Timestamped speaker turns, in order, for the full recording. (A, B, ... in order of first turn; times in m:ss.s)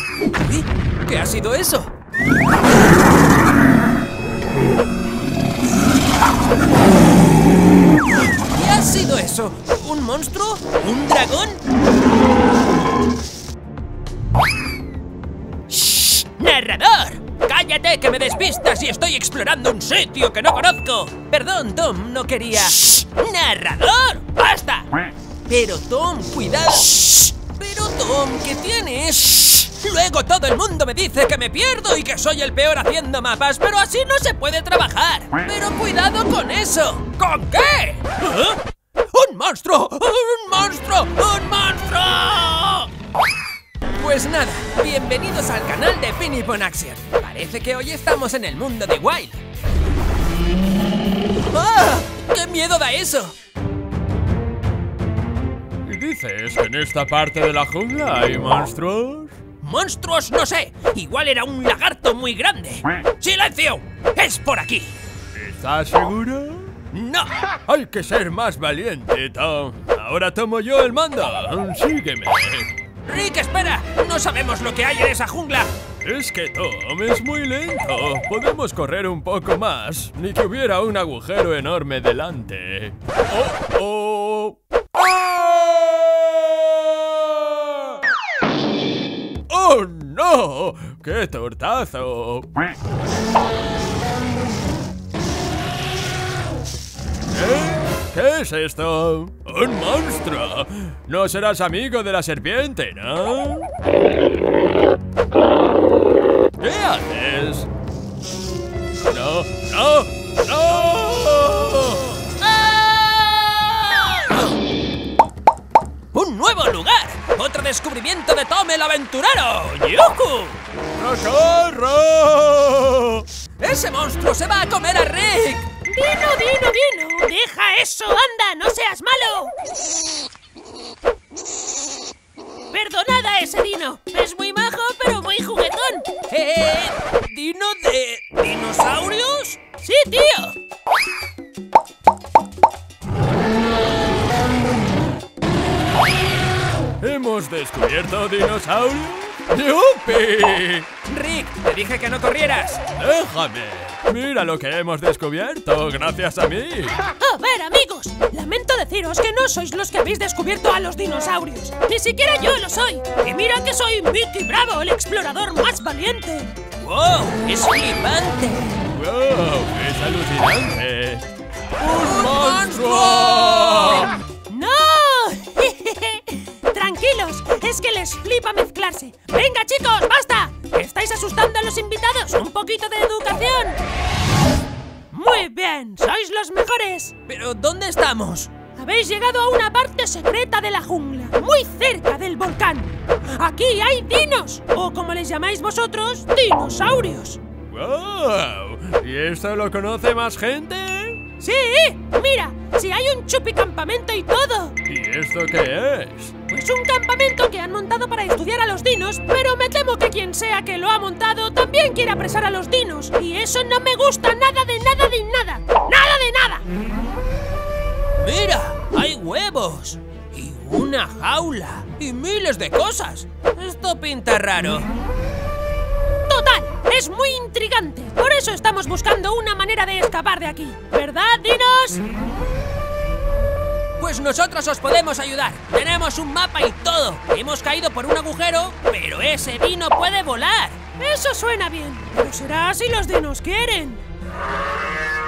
0:00.3-0:01.9 A
0:08.4-0:11.6 A
0:15.7-0:25.0 A
0:25.5-0:42.9 A
0:43.9-0:49.4 A
0:51.5-0:53.4 A
0:55.8-0:59.4 B
0:59.6-1:05.0 A
1:05.3-1:06.8 B
1:06.9-1:07.4 A
1:07.7-1:12.7 B
1:13.0-1:15.8 A
1:16.0-1:28.0 B
1:29.5-1:32.5 B
1:37.3-1:43.7 B
1:46.6-1:47.7 B
1:49.1-1:52.4 B
1:52.8-1:53.3 A
1:54.0-1:54.5 A
1:56.1-2:00.6 A
2:00.9-2:03.3 B
2:03.6-2:05.7 A
2:05.8-2:09.5 C
2:12.7-2:16.3 C
2:16.2-2:19.6 A
2:19.6-2:20.6 C
2:27.0-2:30.9 B
2:31.0-2:32.9 A
2:32.9-2:37.0 B
2:37.1-2:46.7 C
2:46.8-2:48.8 A
2:48.8-2:51.2 B
2:51.8-2:54.1 B
2:52.3-2:53.8 A
2:53.8-3:03.8 C
3:05.1-3:07.2 C
3:07.2-3:08.6 A
3:08.6-3:17.4 C
3:17.7-3:21.2 B
3:21.4-3:24.8 C
3:24.8-3:26.4 B
3:26.5-3:36.6 C
3:38.2-3:44.9 A
3:46.3-3:52.0 C
3:54.0-4:00.8 A
4:00.8-4:04.0 C